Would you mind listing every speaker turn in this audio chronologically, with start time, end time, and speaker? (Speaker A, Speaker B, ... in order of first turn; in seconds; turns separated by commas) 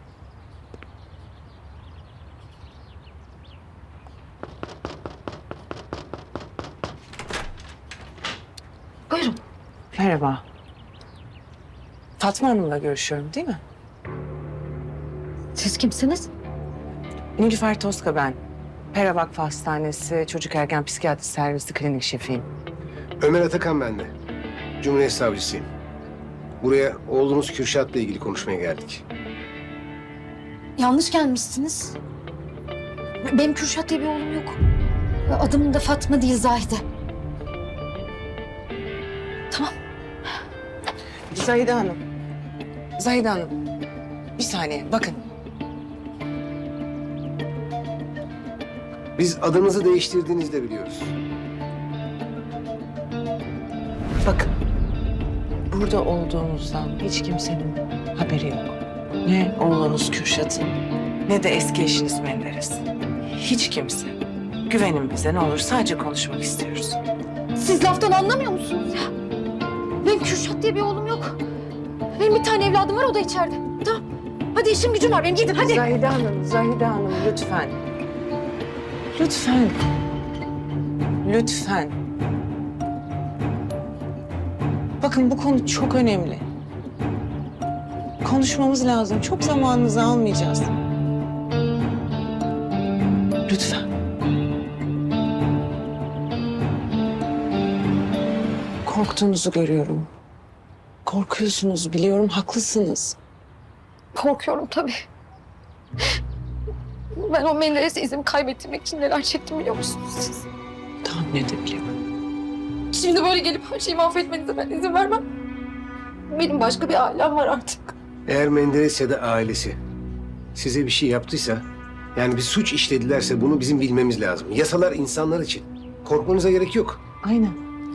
Speaker A: 9.1-9.4, Speaker B: 9.9-10.4, Speaker B: 12.2-13.6, Speaker A: 15.6-16.3, Speaker B: 17.4-18.4, Speaker B: 18.9-22.5, Speaker C: 23.2-24.1, Speaker C: 24.8-25.7, Speaker C: 26.6-29.0, Speaker A: 30.8-31.9, Speaker A: 33.3-34.6, Speaker A: 35.3-36.8, Speaker B: 41.3-42.0, Speaker B: 43.0-43.5, Speaker B: 44.4-45.2, Speaker C: 49.2-51.1, Speaker B: 54.2-54.5, Speaker B: 55.7-62.8, Speaker B: 63.4-64.2, Speaker B: 64.7-67.0, Speaker A: 67.6-69.1, Speaker A: 70.0-71.4, Speaker A: 72.2-74.0, Speaker A: 74.5-75.8, Speaker B: 75.3-77.8, Speaker B: 79.1-79.8, Speaker B: 81.2-81.9, Speaker B: 85.0-86.4, Speaker B: 88.2-90.7, Speaker B: 93.5-93.9, Speaker B: 98.8-100.1, Speaker B: 101.0-103.2, Speaker A: 104.1-105.0, Speaker A: 107.2-110.4, Speaker B: 111.0-111.9, Speaker A: 112.9-115.2, Speaker A: 116.3-117.9, Speaker C: 118.3-119.8, Speaker C: 120.5-121.6, Speaker C: 122.2-127.0, Speaker B: 127.2-127.6